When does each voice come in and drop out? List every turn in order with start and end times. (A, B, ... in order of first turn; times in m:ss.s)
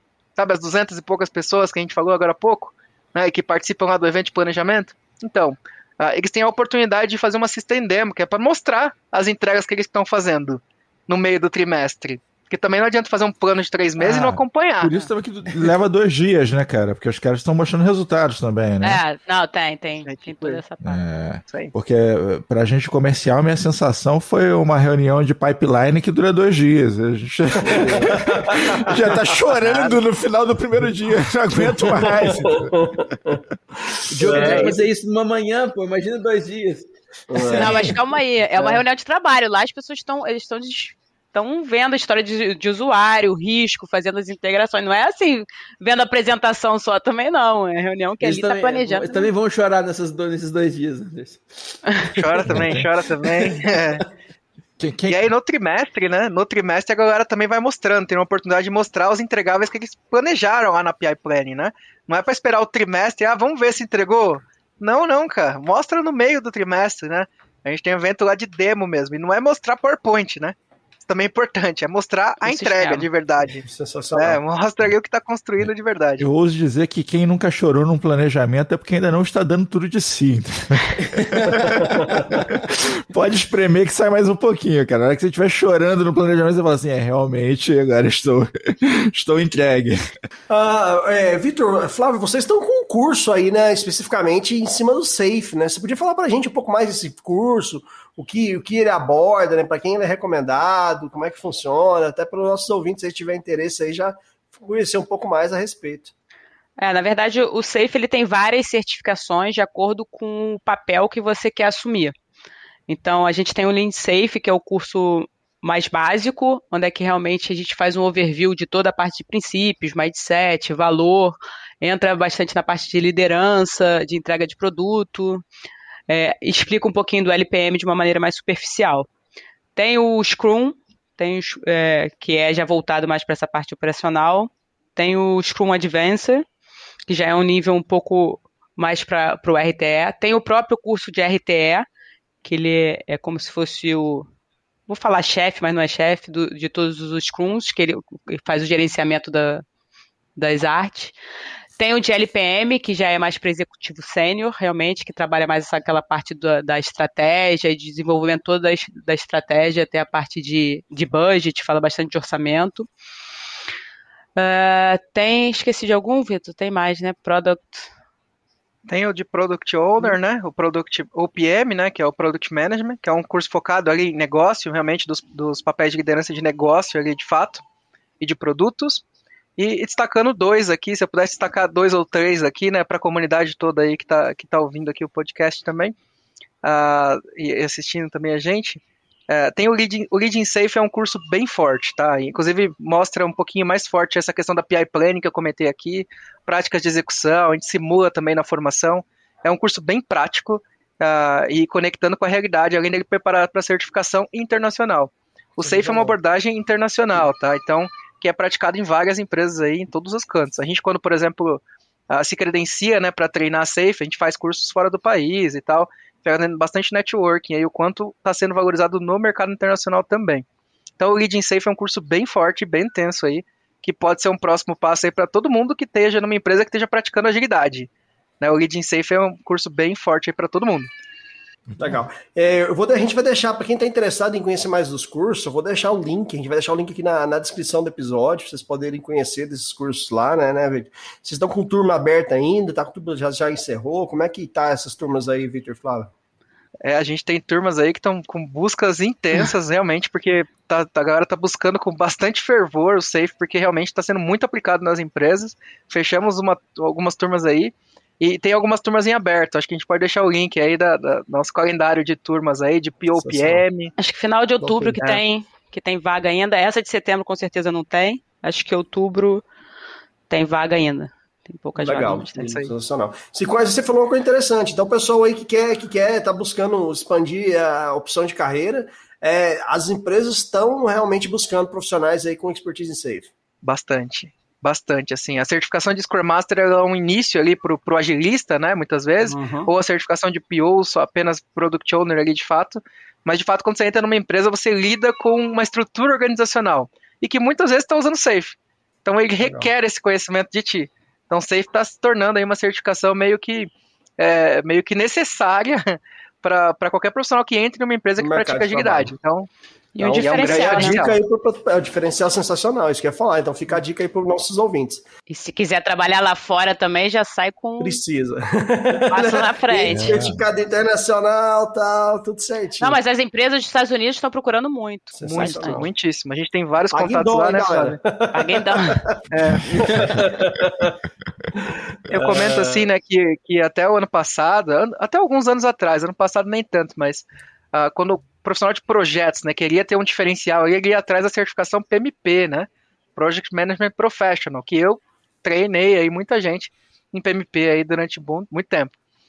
0:00.4-0:14.9 A
0:14.0-0:19.0 B
0:18.8-0:21.0 C
0:20.1-0:20.6 A
0:20.8-0:33.3 B
0:27.6-0:29.4 D
0:29.6-0:30.0 A
0:31.9-0:33.4 D
0:34.1-0:38.0 E
0:34.2-0:34.6 B
0:34.2-0:34.8 D
0:34.4-0:34.8 C
0:37.3-0:37.9 D
0:37.5-0:49.3 C
0:48.2-0:51.4 E
0:52.2-0:54.0 A
0:52.5-0:52.8 B
0:54.8-0:55.3 B
0:55.1-1:16.3 A
1:12.4-1:13.1 C
1:13.6-1:14.4 D
1:16.2-1:30.0 B
1:21.2-1:21.4 E
1:21.8-1:22.4 D
1:30.5-1:46.1 D
1:46.8-1:52.1 C
1:52.9-2:05.4 C
2:06.1-2:09.1 C
2:09.8-2:16.5 C
2:17.1-2:21.9 C
2:22.4-2:24.3 C
2:24.9-2:29.6 C
2:30.4-2:31.2 C
2:31.8-2:42.9 C
2:44.4-2:47.9 C
2:48.9-2:57.6 A
2:58.2-2:59.0 A
2:59.6-3:06.0 A
3:06.6-3:40.4 A
3:25.6-3:26.2 D
3:41.0-3:47.9 A
3:48.4-3:50.9 A
3:51.7-3:52.0 B
3:51.8-4:06.1 D
4:06.8-4:23.9 A
4:23.1-4:23.6 D
4:24.0-4:29.4 C
4:24.6-4:25.0 D
4:30.3-4:32.7 C
4:31.8-4:43.3 D
4:43.6-5:09.5 A
4:49.2-4:49.7 D
4:59.4-4:59.7 D
5:08.2-5:09.2 D
5:10.0-5:11.0 C
5:10.0-5:15.0 D
5:10.1-5:11.2 A
5:15.3-5:18.0 C
5:17.8-5:23.0 D
5:19.1-5:20.2 C
5:19.9-5:20.4 B
5:22.8-5:25.8 C
5:25.2-5:25.9 D
5:25.2-5:28.0 A
5:26.9-5:31.0 D
5:28.3-5:29.0 C
5:29.3-5:29.7 A
5:31.6-5:32.9 D
5:32.1-5:48.9 A